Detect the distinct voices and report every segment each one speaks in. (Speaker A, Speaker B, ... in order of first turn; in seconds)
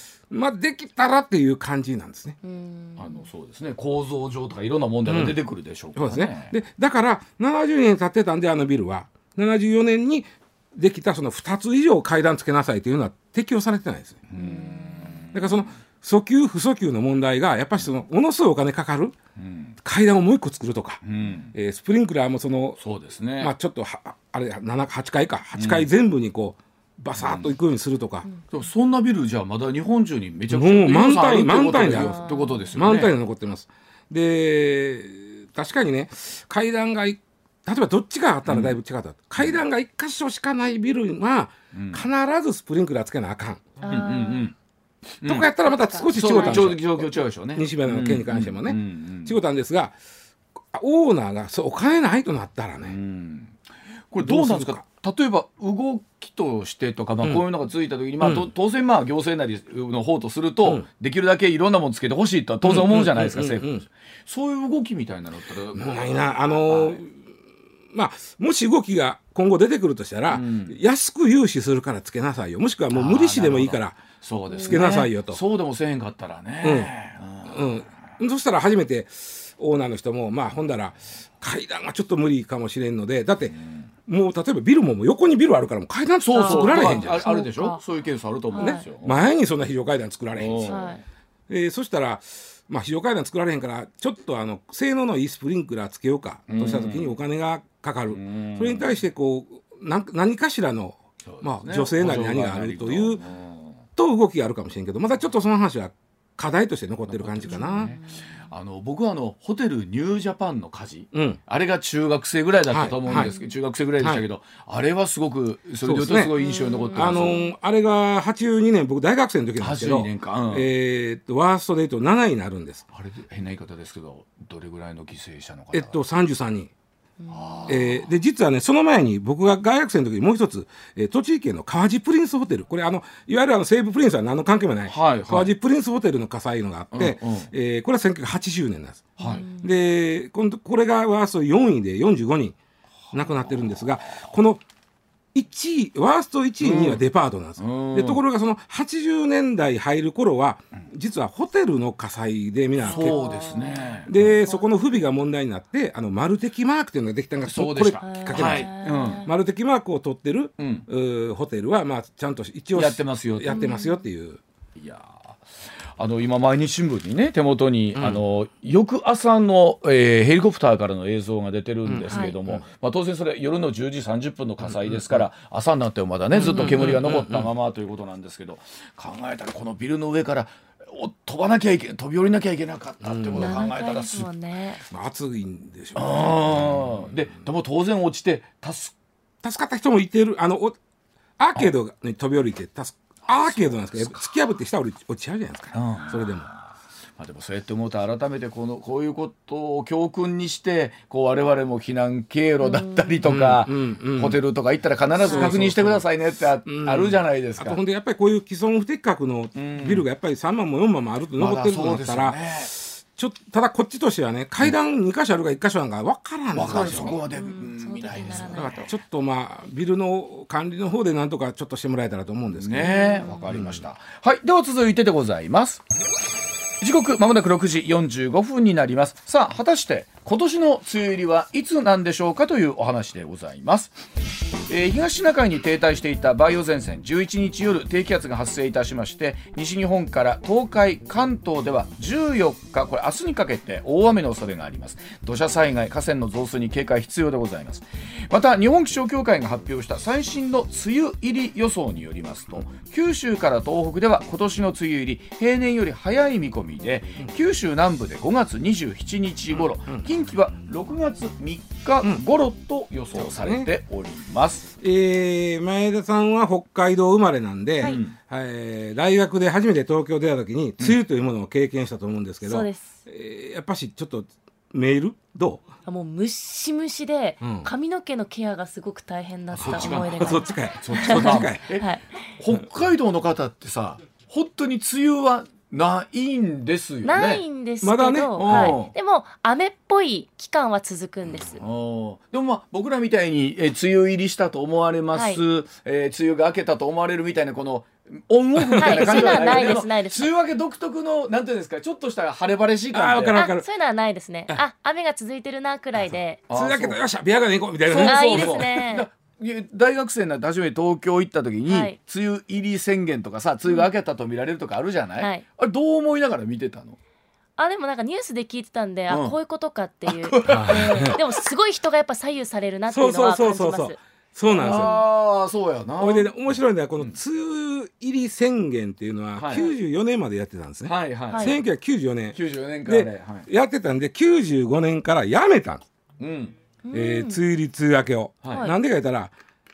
Speaker A: 0.3-2.4, 5.0-5.4, 6.0-14.2, 15.3-19.1, 19.8-21.0, 21.5-22.8, 23.4-28.3, 30.5-43.7, 45.2-50.0, 50.7-53.0, 54.2-54.8, 58.2-58.5, 62.6-63.8, 65.7-67.2, 67.9-74.0, 74.6-75.4, 76.6-76.9, 77.4-83.5, 84.1-87.2, 88.6-90.9, 91.5-103.2, 104.0-107.9, 111.1-111.4, 112.7-113.3, 115.8-116.3, 116.9-122.8, 125.7-126.7, 127.7-142.6, 143.1-144.6, 145.3-153.2, 154.1-164.4, 167.9-168.2, 171.8-172.6, 174.6-175.2, 176.3-177.5, 183.0-183.7, 184.9-187.0, 189.4-190.8, 191.4-196.5, 203.2-204.4, 205.3-206.1, 206.7-217.2, 218.5-223.8, 259.6-260.1, 263.1-263.7, 264.8-275.6, 277.4-277.7, 279.6-281.6, 287.8-288.8, 298.6-299.8, 302.9-303.6, 306.5-308.8, 320.5-321.2, 322.9-324.9, 326.0-335.8, 336.9-339.3
Speaker B: 2.4-3.3, 14.4-15.2, 31.8-32.7, 43.8-44.5, 45.6-46.7, 74.5-74.8, 86.3-87.8, 88.5-88.8, 90.6-91.0, 107.5-108.4, 113.1-113.3, 116.4-117.5, 139.2-139.7, 152.9-154.9, 158.0-159.3, 163.5-164.1, 172.1-172.4, 176.4-176.9, 183.3-184.8, 202.6-203.2, 205.2-205.6, 216.7-218.8, 222.8-223.4, 272.4-272.9, 275.9-282.0, 287.0-291.6, 295.1-295.4, 298.8-300.3, 303.3-306.4, 307.9-309.1, 311.7-312.0, 315.2-315.4, 317.6-324.0, 324.6-325.1, 331.3-331.6, 336.8-337.4, 338.5-338.7
Speaker C: 3.0-6.5, 14.3-15.5, 19.4-19.8, 21.0-21.5, 22.8-23.5, 25.6-25.9, 27.2-27.5, 28.5-33.1, 38.5-38.8, 39.4-39.6, 41.7-42.0, 43.9-44.5, 45.2-45.5, 46.1-49.4, 52.8-53.6, 54.1-67.0, 70.3-70.8, 72.9-77.8, 83.5-83.9, 86.2-89.1, 90.3-91.0, 96.5-97.1, 98.1-98.9, 101.2-103.8, 107.1-117.4, 119.6-120.7, 122.9-126.0, 127.3-128.1, 134.9-135.5, 136.9-137.5, 139.2-139.5, 146.6-147.0, 147.6-148.2, 152.8-154.4, 157.4-159.2, 160.6-160.9, 162.7-163.6, 164.8-165.4, 166.0-184.3, 185.9-188.9, 193.4-194.1, 195.7-196.6, 197.2-207.8, 209.5-210.1, 211.4-212.7, 216.5-218.9, 222.5-225.8, 226.8-234.0, 234.7-264.7, 267.8-268.1, 279.5-287.4, 288.4-288.9, 291.6-303.4, 306.5-307.0, 307.9-317.0, 319.1-319.4, 320.1-321.4, 324.5-326.3, 329.4-329.7, 330.8-331.6, 332.3-333.5, 336.2-336.5, 338.4-338.7